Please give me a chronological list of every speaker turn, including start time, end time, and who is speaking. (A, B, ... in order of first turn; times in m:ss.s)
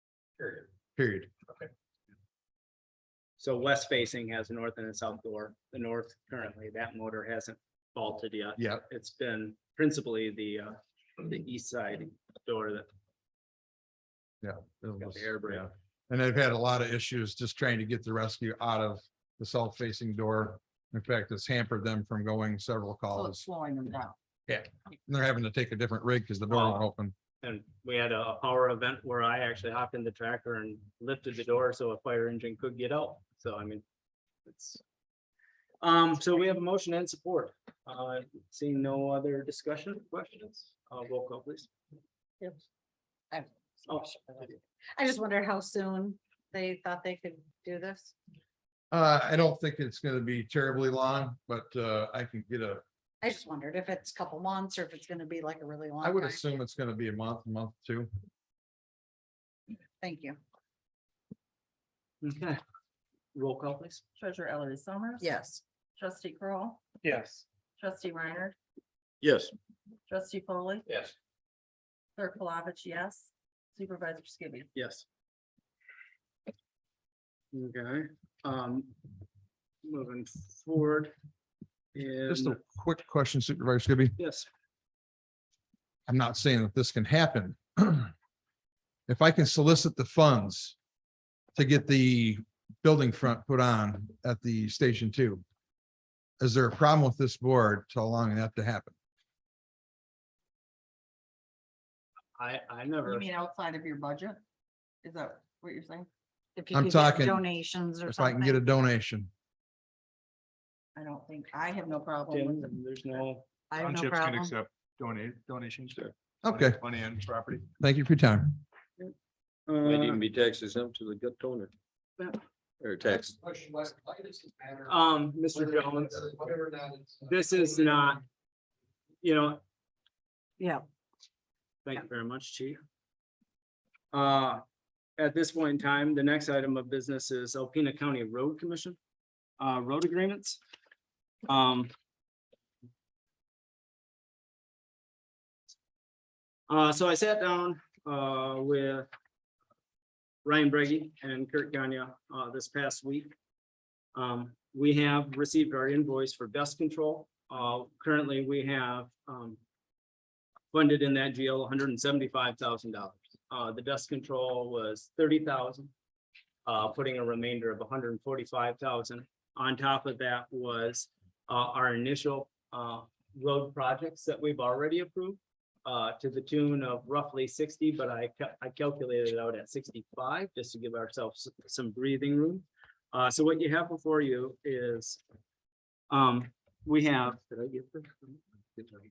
0:00.9-0:01.3 A
0:03.4-0:12.9 B
0:08.6-0:08.8 A
0:14.4-0:23.4 A
0:15.0-0:15.7 B
0:23.1-0:24.2 C
0:24.5-0:27.1 A
0:26.5-0:26.8 B
0:27.4-0:33.8 B
0:34.4-0:34.8 B
0:35.8-0:41.7 B
0:43.3-0:48.1 D
0:48.9-0:52.8 A
0:53.2-0:56.4 D
0:56.0-0:58.1 A
1:00.0-1:00.4 D
1:02.2-1:02.6 B
1:03.3-1:04.0 B
1:04.2-1:05.3 C
1:05.2-1:05.6 D
1:06.0-1:06.8 C
1:07.0-1:07.4 B
1:07.8-1:08.5 C
1:09.2-1:09.5 E
1:10.1-1:10.8 C
1:12.2-1:14.7 C
1:14.7-1:15.0 B
1:17.5-1:18.9 B
1:19.8-1:21.1 B
1:21.9-1:22.6 B
1:22.2-1:24.2 A
1:24.2-1:24.5 B
1:26.1-1:28.1 A
1:29.1-1:30.8 A
1:31.5-1:35.4 A
1:36.4-1:38.9 A
1:42.4-1:43.3 B
1:43.0-1:44.4 C
1:45.0-1:46.1 C
1:46.6-1:48.6 D
1:46.7-1:47.4 A
1:48.0-1:49.3 A
1:50.9-1:52.7 C
1:52.3-1:53.5 B
1:53.7-1:54.5 D
1:53.8-1:57.7 F
1:56.4-1:56.8 A
1:57.8-1:58.6 A
1:59.7-2:00.2 B
1:59.8-2:01.7 E
2:02.8-2:03.4 E
2:04.9-2:06.3 B
2:07.3-2:08.2 B
2:09.2-2:09.6 B
2:11.8-2:12.8 B
2:14.1-2:14.6 B
2:15.2-2:19.0 B
2:19.6-2:20.6 B
2:21.5-2:21.9 B
2:26.7-2:29.1 B
2:30.4-2:33.3 B
2:34.1-2:39.6 B
2:40.7-2:45.9 B
2:46.6-3:05.2 B
3:06.1-3:07.4 B
3:07.5-3:08.1 E